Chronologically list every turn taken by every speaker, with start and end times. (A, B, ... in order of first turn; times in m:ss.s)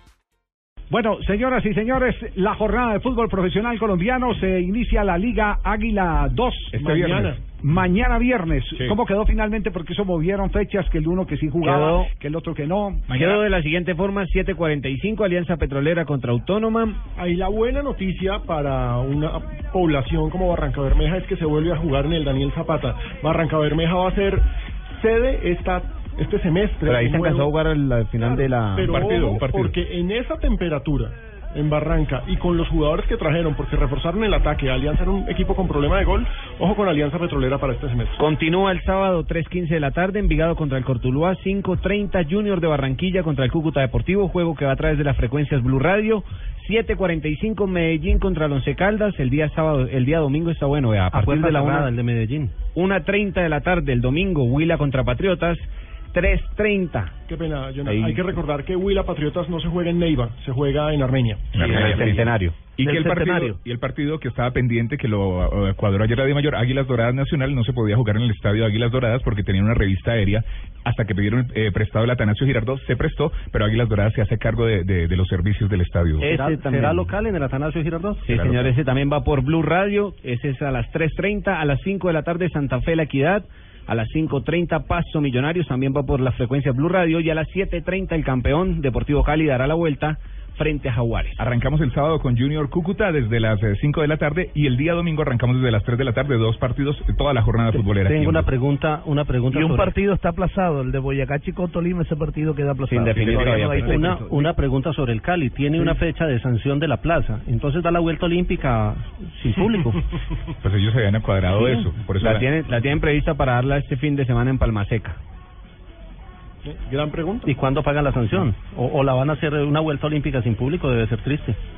0:00.9-0:06.8 A
0:06.7-0:07.3 B
0:06.7-0:07.4 C
0:07.4-0:13.1 A
0:11.6-0:12.1 D
0:13.1-0:13.4 B
0:13.1-0:17.0 D
0:17.1-0:27.5 C
0:26.8-0:29.0 D
0:28.2-0:38.2 C
0:28.9-0:29.8 B
0:38.2-0:51.9 D
0:51.1-0:52.5 E
0:52.7-0:57.1 D
0:57.3-1:01.6 C
0:57.8-0:58.2 D
1:01.5-1:02.2 B
1:01.6-1:02.7 D
1:02.8-1:16.3 B
1:02.8-1:03.6 F
1:16.2-1:18.3 E
1:16.3-1:17.1 D
1:18.2-1:31.4 D
1:18.3-1:18.7 B
1:31.4-1:38.5 B
1:37.9-1:40.0 E
1:39.5-1:44.5 F
1:42.8-1:44.0 D
1:43.1-1:43.9 B
1:43.8-1:50.1 E
1:50.6-1:52.5 B
1:51.5-1:55.2 D
1:56.6-1:57.5 C
1:57.4-2:01.6 E